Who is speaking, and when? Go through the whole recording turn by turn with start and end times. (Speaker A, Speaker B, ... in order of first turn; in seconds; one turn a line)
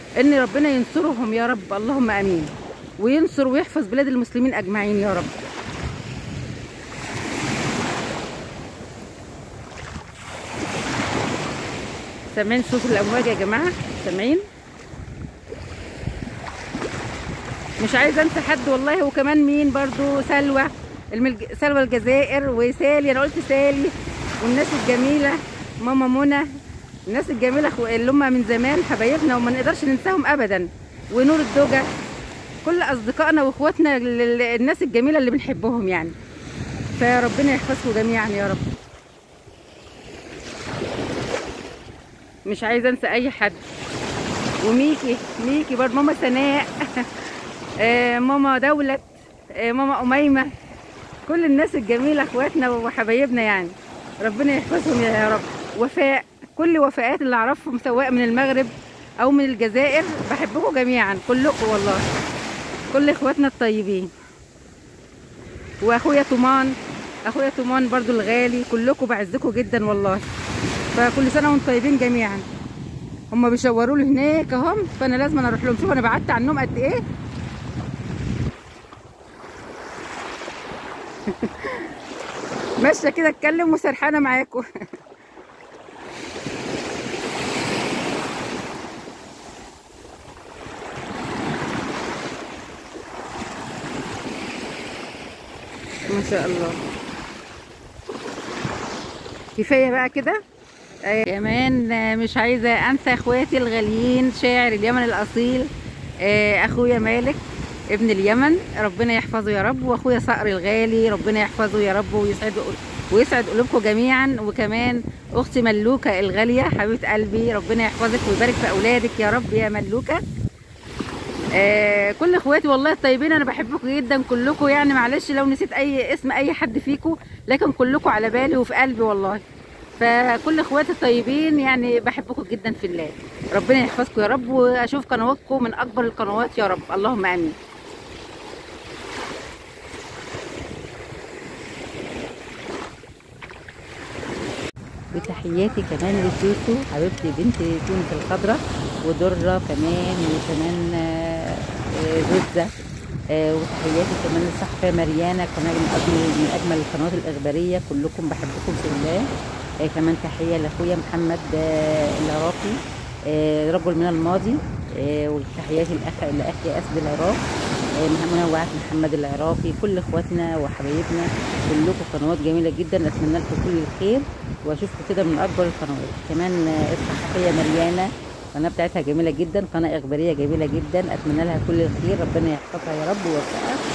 Speaker A: 0.2-5.3
Speaker A: 12.3-14.4
Speaker A: 17.8-26.5
Speaker A: 27.1-31.9
Speaker A: 32.6-36.1
Speaker A: 37.0-38.6
Speaker A: 42.5-43.6
Speaker A: 44.6-50.5
Speaker A: 51.2-62.0
Speaker A: 62.9-64.1
Speaker A: 65.8-66.7
Speaker A: 67.3-70.2
Speaker A: 70.9-72.5
Speaker A: 73.3-77.0
Speaker A: 81.2-81.9
Speaker A: 82.8-84.6
Speaker A: 96.1-96.8
Speaker A: 99.6-100.4
Speaker A: 101.1-105.7
Speaker A: 106.2-107.4
Speaker A: 107.9-120.2
Speaker A: 121.5-129.4
Speaker A: 130.0-137.6
Speaker A: 145.1-152.7
Speaker A: 153.3-159.3
Speaker A: 159.8-167.4
Speaker A: 168.0-183.8